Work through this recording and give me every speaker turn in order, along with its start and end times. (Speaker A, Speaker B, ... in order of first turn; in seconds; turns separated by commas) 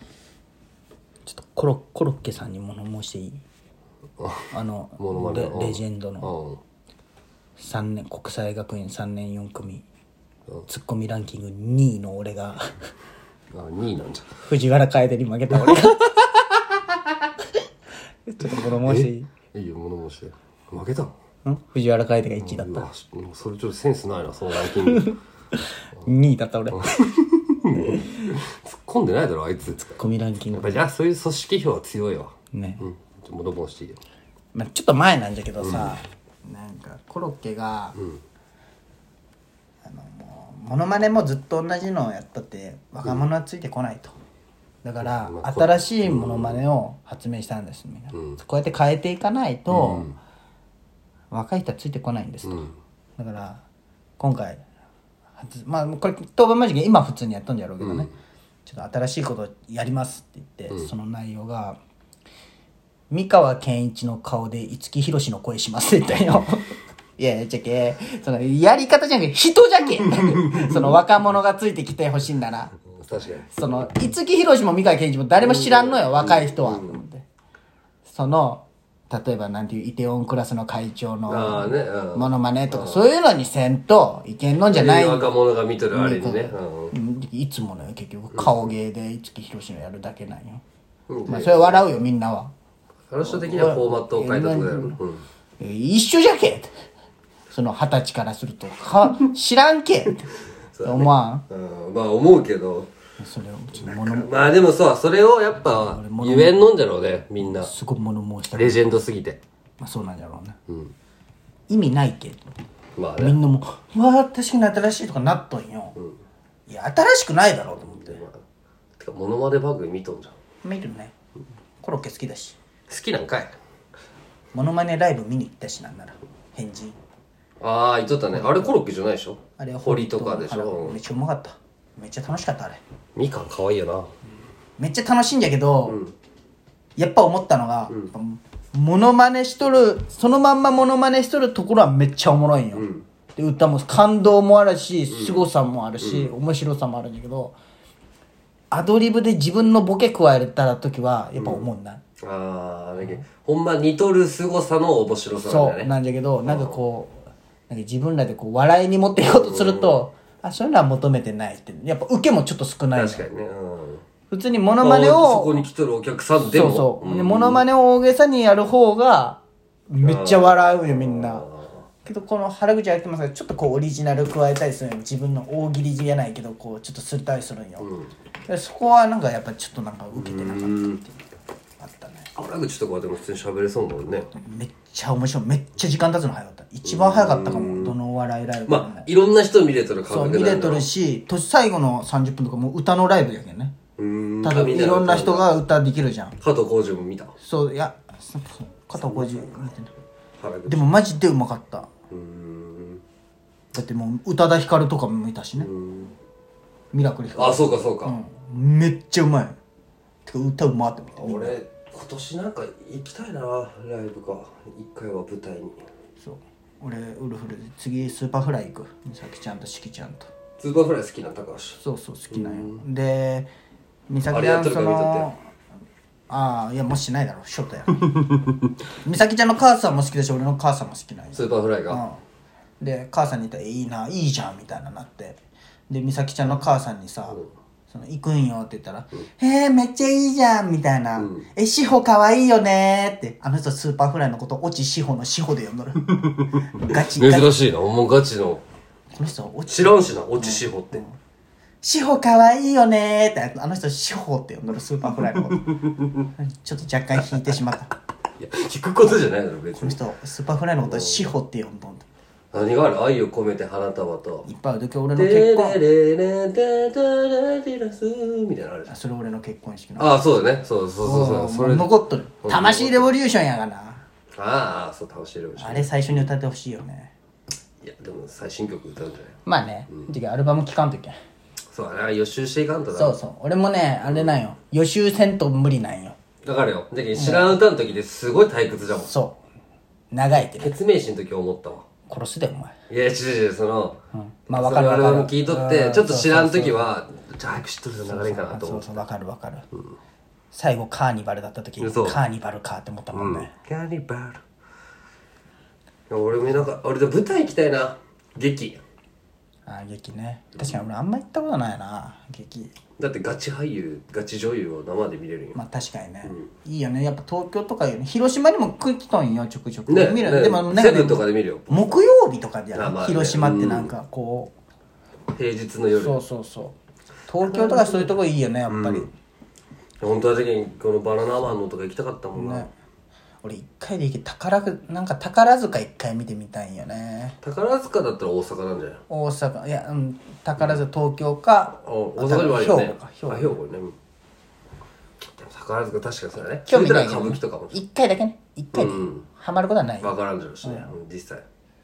Speaker A: 1.2-3.4, Speaker B: 4.2-6.6, Speaker A: 4.5-6.3, Speaker A: 7.6-9.8, Speaker A: 10.7-12.7, Speaker B: 13.5-14.4, Speaker A: 14.4-17.6, Speaker B: 15.5-15.9, Speaker A: 18.2-19.3, Speaker B: 18.4-21.1, Speaker A: 21.4-22.9, Speaker B: 22.4-25.1, Speaker A: 24.6-26.9, Speaker B: 26.8-30.0, Speaker A: 27.8-28.2, Speaker A: 30.0-30.8, Speaker B: 30.5-34.0, Speaker A: 32.5-32.8, Speaker A: 34.5-38.0, Speaker B: 35.6-36.0, Speaker B: 38.0-38.2, Speaker A: 39.8-44.1, Speaker A: 44.8-50.1, Speaker B: 45.0-46.6, Speaker B: 48.1-48.4, Speaker B: 49.7-50.1, Speaker A: 51.3-52.6, Speaker B: 52.4-52.7, Speaker A: 53.2-53.6, Speaker A: 54.2-54.6, Speaker A: 55.4-58.1, Speaker B: 57.8-58.1, Speaker A: 58.6-61.8, Speaker A: 63.1-72.8, Speaker B: 72.9-73.8, Speaker A: 73.5-77.2, Speaker B: 75.4-77.0, Speaker A: 78.0-85.3, Speaker B: 81.3-83.1, Speaker B: 84.7-86.9, Speaker A: 85.9-90.6, Speaker B: 88.3-88.7, Speaker B: 91.1-91.9, Speaker A: 91.3-92.5, Speaker B: 93.1-95.2, Speaker A: 93.2-95.0, Speaker A: 95.6-96.7, Speaker A: 97.5-100.3, Speaker B: 100.7-102.9, Speaker A: 100.8-101.4, Speaker A: 103.2-104.5, Speaker B: 103.8-107.7, Speaker A: 105.8-106.6, Speaker A: 107.4-108.9, Speaker B: 108.5-109.4, Speaker A: 109.8-110.6, Speaker B: 110.7-110.9, Speaker A: 111.7-112.5, Speaker B: 113.0-113.4, Speaker A: 113.2-116.0, Speaker A: 116.7-118.0, Speaker B: 117.6-118.4, Speaker B: 119.0-120.3, Speaker A: 120.6-121.1, Speaker A: 121.8-122.6, Speaker B: 122.9-123.5, Speaker A: 124.5-127.0, Speaker B: 127.6-131.0, Speaker A: 128.3-128.7, Speaker A: 129.6-132.8, Speaker B: 133.2-134.1, Speaker A: 134.8-136.0, Speaker B: 135.9-136.1, Speaker A: 137.0-147.5, Speaker B: 142.7-143.0, Speaker B: 145.1-145.5, Speaker B: 146.0-146.3, Speaker A: 148.7-152.0, Speaker B: 151.4-151.7, Speaker B: 152.2-155.9, Speaker A: 155.4-163.2, Speaker B: 156.4-156.8, Speaker B: 159.2-160.0, Speaker B: 162.9-164.0, Speaker A: 164.3-165.7, Speaker B: 164.8-167.6, Speaker A: 166.4-171.4, Speaker B: 170.0-171.8, Speaker A: 172.0-177.9, Speaker B: 177.8-178.1, Speaker A: 178.5-181.2, Speaker B: 180.1-181.0, Speaker A: 181.8-182.3, Speaker B: 182.3-184.3, Speaker A: 184.3-189.1, Speaker B: 186.8-188.0, Speaker B: 188.7-190.9, Speaker A: 190.1-193.8, Speaker B: 194.0-195.5, Speaker A: 194.4-196.4, Speaker B: 196.4-197.3, Speaker A: 197.4-199.9, Speaker B: 198.9-199.7, Speaker B: 200.4-200.8, Speaker A: 200.7-201.9, Speaker B: 202.1-203.0, Speaker A: 203.7-205.7, Speaker B: 205.6-206.1, Speaker A: 206.9-209.6, Speaker B: 207.3-208.2, Speaker A: 210.2-211.6, Speaker B: 211.2-215.8, Speaker A: 216.2-220.3, Speaker B: 220.6-221.8, Speaker A: 221.8-223.5, Speaker B: 222.3-222.8, Speaker A: 224.1-225.4, Speaker B: 224.3-225.3, Speaker A: 226.3-228.3, Speaker A: 229.0-232.2, Speaker B: 231.3-232.0, Speaker A: 232.8-246.1, Speaker B: 241.2-241.5, Speaker B: 246.1-248.6, Speaker A: 246.7-247.6, Speaker A: 249.1-251.2, Speaker B: 249.7-251.0, Speaker A: 251.8-255.8, Speaker B: 255.6-256.3, Speaker A: 256.4-257.9, Speaker B: 258.4-260.0, Speaker A: 259.7-262.1, Speaker B: 260.9-261.3, Speaker B: 262.5-264.5, Speaker A: 264.4-265.8, Speaker B: 265.1-268.9, Speaker A: 268.9-270.2, Speaker B: 270.0-273.1, Speaker A: 271.0-274.0, Speaker B: 274.3-276.3, Speaker A: 275.6-277.1, Speaker B: 277.8-279.4, Speaker A: 279.4-281.2, Speaker B: 281.7-283.2, Speaker A: 282.9-286.1, Speaker B: 284.1-284.4, Speaker B: 286.4-289.1, Speaker A: 287.1-287.6, Speaker A: 289.0-289.4, Speaker A: 290.1-290.7, Speaker B: 290.6-291.8, Speaker A: 292.1-292.7, Speaker B: 292.9-294.0, Speaker A: 294.1-296.9, Speaker B: 294.5-299.0, Speaker A: 298.0-299.6, Speaker A: 300.5-303.5, Speaker B: 301.8-302.2, Speaker B: 303.1-304.4, Speaker B: 306.1-308.8, Speaker A: 309.6-312.7, Speaker B: 313.0-315.6, Speaker A: 315.5-324.5, Speaker B: 319.9-322.0, Speaker B: 322.7-323.9, Speaker B: 325.3-326.2, Speaker A: 325.9-326.7, Speaker A: 327.3-329.1, Speaker B: 327.4-329.1, Speaker B: 330.0-332.7, Speaker A: 332.3-332.7, Speaker A: 333.4-337.4, Speaker B: 337.4-339.0, Speaker A: 339.1-343.5, Speaker B: 341.8-343.9, Speaker B: 345.3-347.7, Speaker A: 346.6-350.9, Speaker B: 348.7-349.2, Speaker B: 350.0-351.4